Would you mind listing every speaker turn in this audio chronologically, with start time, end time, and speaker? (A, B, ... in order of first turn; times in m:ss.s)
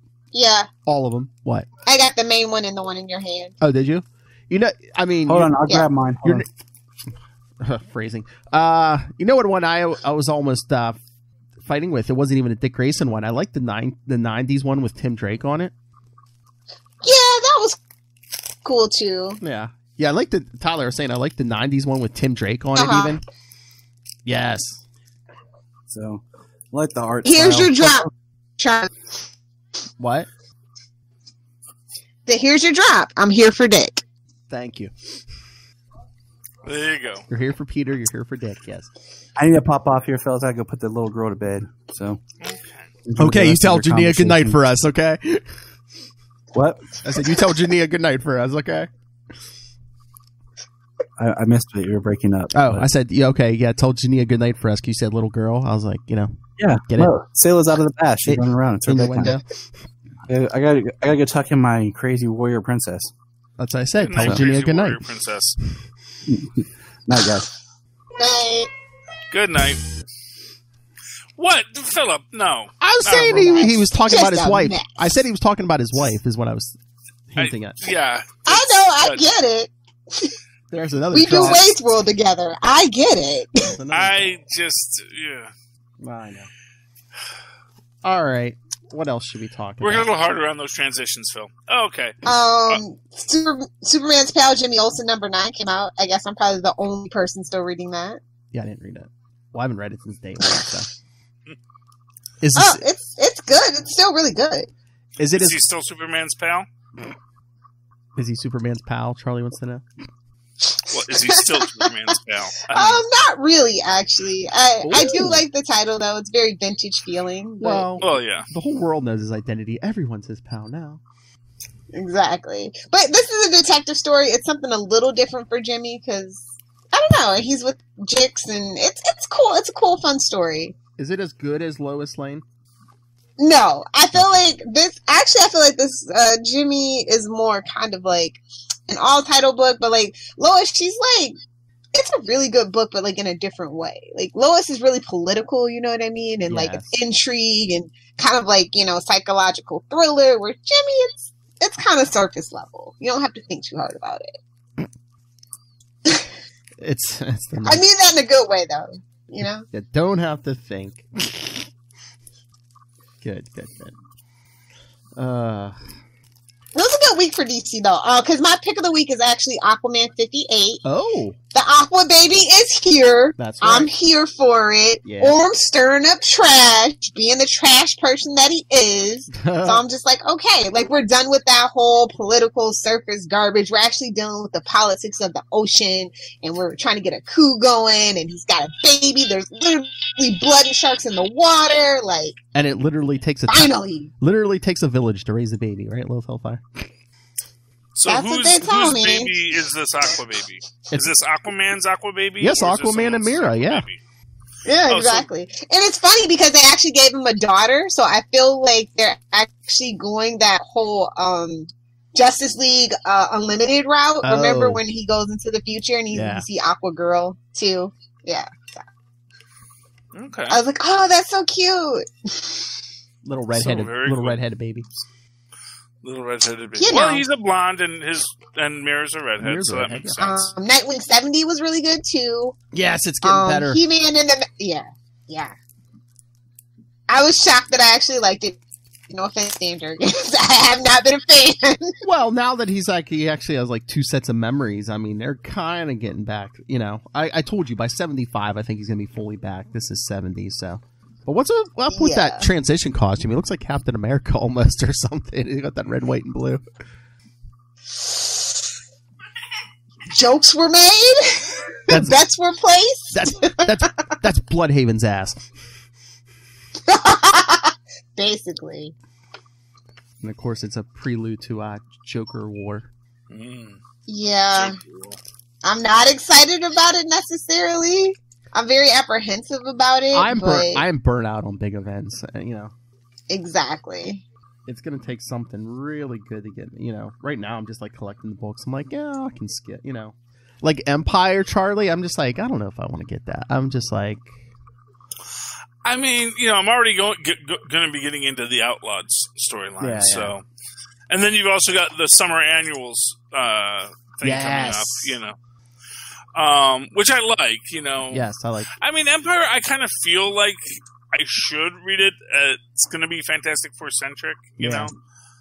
0:00.3-0:00.7 A
0:00.9-0:01.7 B
0:01.9-0:03.5 A
0:03.6-0:05.5 B
0:05.3-0:06.5 C
0:07.6-0:11.0 B
0:11.6-0:15.7 B
0:17.0-0:17.8 A
0:18.6-0:19.4 A
0:19.4-0:23.2 B
0:22.8-0:23.2 A
0:24.3-0:24.8 B
0:25.9-0:28.0 C
0:27.2-0:28.9 A
0:30.0-0:30.3 B
0:32.3-0:34.0 A
0:34.5-0:34.9 B
0:36.7-0:37.2 D
0:37.3-0:38.9 B
0:39.4-0:42.2 C
0:42.4-0:42.9 D
0:43.1-0:44.6 C
0:43.2-0:45.6 B
0:46.5-0:46.8 C
0:47.0-0:48.9 B
0:51.2-0:52.9 C
0:52.5-0:57.1 B
0:56.6-0:59.4 C
0:58.3-0:59.4 B
1:00.3-1:03.1 C
1:03.6-1:05.0 B
1:04.0-1:05.6 D
1:04.2-1:04.4 C
1:06.3-1:07.5 C
1:08.2-1:08.7 A
1:09.3-1:09.8 D
1:11.4-1:13.4 D
1:12.8-1:16.8 B
1:13.1-1:14.9 A
1:17.3-1:17.8 B
1:17.4-1:19.2 D
1:18.5-1:20.4 A
1:20.7-1:21.7 B
1:21.1-1:23.7 A
1:23.7-1:24.3 B
1:23.9-1:25.5 D
1:26.0-1:26.5 B
1:28.0-1:30.1 B
1:29.8-1:32.8 D
1:32.2-1:38.2 A
1:38.5-1:40.9 B
1:42.4-1:42.8 B
1:42.6-1:44.7 A
1:45.2-1:45.6 B
1:45.4-1:46.7 D
1:48.2-1:49.8 B
1:50.7-1:51.4 A
1:50.9-1:53.0 D
1:52.7-1:57.9 A
1:54.8-1:55.4 B
1:57.6-2:01.0 B
1:58.0-1:58.5 D
2:01.9-2:10.8 A
2:11.0-2:12.4 B
2:13.4-2:21.4 A
2:21.9-2:34.4 A
2:26.5-2:27.0 B
2:36.8-2:37.8 B
2:37.6-2:39.6 A
2:39.7-2:41.7 B
2:43.2-2:43.9 B
2:45.2-2:45.8 B
2:46.8-2:50.8 A
2:50.8-2:51.4 B
2:51.5-3:12.4 A
2:53.4-2:53.9 B
2:55.0-2:55.4 B
2:59.3-2:59.8 B
3:12.6-3:16.9 B
3:13.5-3:14.1 A
3:18.0-3:24.0 D
3:18.1-3:19.3 A
3:22.4-3:23.9 B
3:24.7-3:38.8 A
3:24.9-3:25.3 D
3:34.2-3:34.8 B
3:36.1-3:36.4 B
3:40.2-3:40.6 D
3:40.5-3:42.6 A
3:43.2-3:44.9 B
3:43.5-3:44.4 D
3:46.0-3:50.5 D
3:46.8-3:47.2 A
3:49.4-3:50.2 B
3:50.2-3:52.6 A
3:52.7-3:53.8 B
3:53.2-3:55.5 A
3:57.1-3:58.6 A
3:59.1-4:01.9 A
4:02.0-4:16.6 B
4:11.9-4:12.5 A
4:20.1-4:23.5 A
4:21.9-4:22.2 B
4:23.1-4:25.4 B
4:26.9-4:28.9 A
4:30.2-4:32.9 B
4:33.3-4:33.8 D
4:34.1-4:34.8 A
4:35.6-4:40.8 A
4:40.1-4:42.7 B
4:43.3-4:44.2 A
4:44.7-4:54.3 B
4:55.8-5:00.4 D
4:59.8-5:00.4 B
5:01.1-5:05.4 D
5:04.2-5:05.1 B
5:06.4-5:08.3 D
5:08.1-5:08.7 B
5:08.8-5:14.9 D
5:14.6-5:14.9 B